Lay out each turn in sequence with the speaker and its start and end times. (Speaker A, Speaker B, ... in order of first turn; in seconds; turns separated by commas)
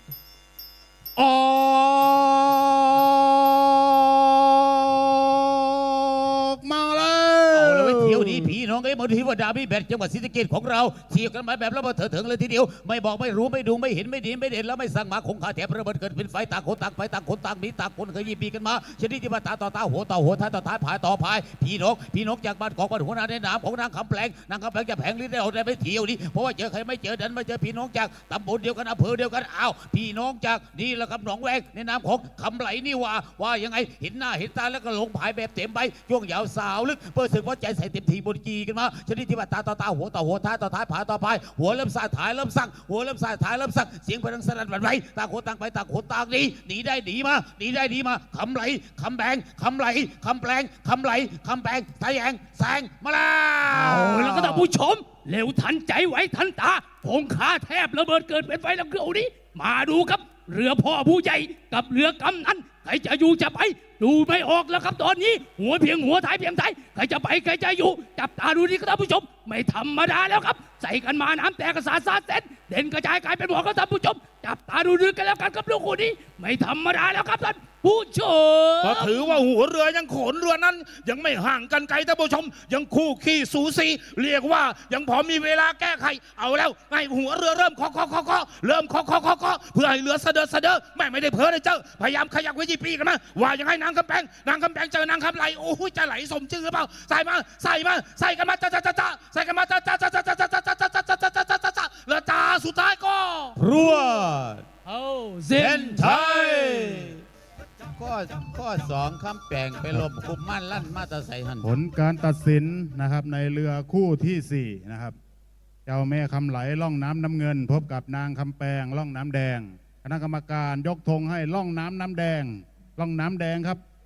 Speaker A: 1.2-8.5, Speaker B: 7.5-54.7, Speaker C: 53.7-79.4, Speaker D: 78.8-103.6, Speaker B: 103.6-104.6, Speaker C: 104.8-106.0, Speaker B: 105.5-107.2, Speaker D: 106.2-106.7, Speaker B: 107.9-111.7, Speaker A: 111.6-115.2, Speaker A: 115.8-123.8